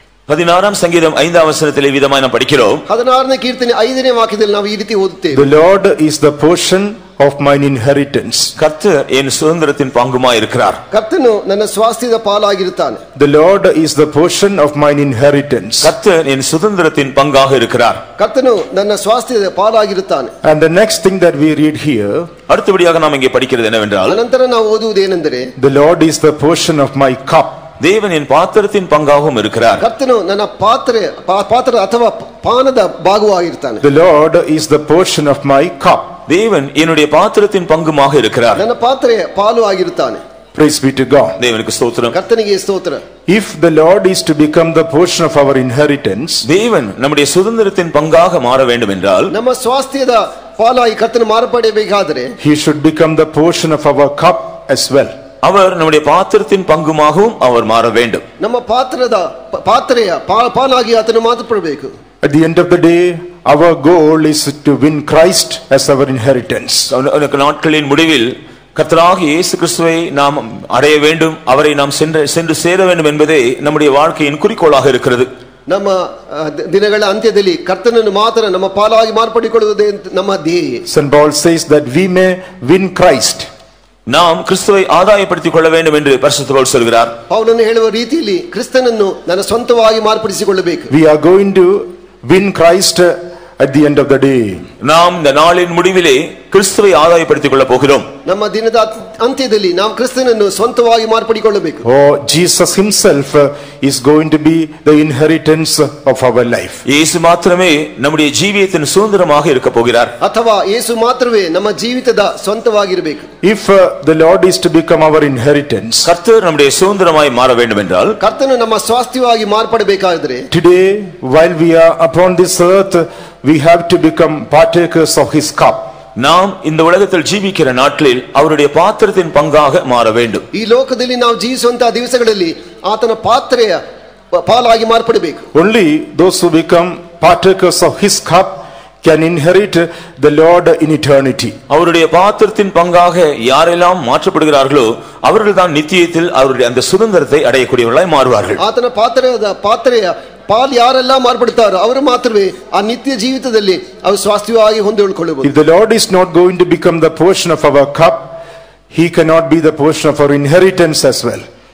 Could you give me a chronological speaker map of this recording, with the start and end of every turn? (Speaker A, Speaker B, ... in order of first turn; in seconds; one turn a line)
Speaker A: 0.3-2.8
Speaker B: 2.9-5.5
Speaker C: 5.3-8.5
Speaker A: 8.6-10.8
Speaker B: 10.9-13.0
Speaker C: 13.1-15.9
Speaker A: 15.8-18.0
Speaker B: 18.2-20.3
Speaker C: 20.4-22.3
Speaker A: 22.5-24.2
Speaker B: 24.1-25.5
Speaker C: 25.6-27.6
Speaker A: 27.8-29.8
Speaker B: 29.8-33.8
Speaker C: 33.8-36.2
Speaker A: 36.3-38.6
Speaker B: 38.5-40.2
Speaker C: 40.5-41.4
Speaker A: 41.4-42.1
Speaker B: 42.1-43.0
Speaker C: 43.3-46.4
Speaker A: 46.5-49.3
Speaker B: 49.3-52.3
Speaker C: 52.4-55.1
Speaker A: 55.4-58.2
Speaker B: 58.4-61.9
Speaker C: 62.2-66.9
Speaker A: 66.9-75.3
Speaker B: 75.7-80.8
Speaker C: 80.9-83.5
Speaker A: 84.1-87.1
Speaker B: 87.3-90.9
Speaker C: 90.9-94.7
Speaker A: 94.8-98.1
Speaker B: 98.2-101.8
Speaker C: 101.8-106.8
Speaker A: 106.8-110.1
Speaker B: 110.2-113.3
Speaker C: 113.4-116.1
Speaker A: 116.0-118.2
Speaker B: 118.2-120.5
Speaker C: 120.5-125.9
Speaker A: 126.2-130.4
Speaker B: 130.5-133.8
Speaker B: 134.3-135.4
Speaker C: 135.5-141.6
Speaker A: 141.7-148.6
Speaker B: 148.6-155.5
Speaker C: 155.4-158.3
Speaker C: 158.9-161.4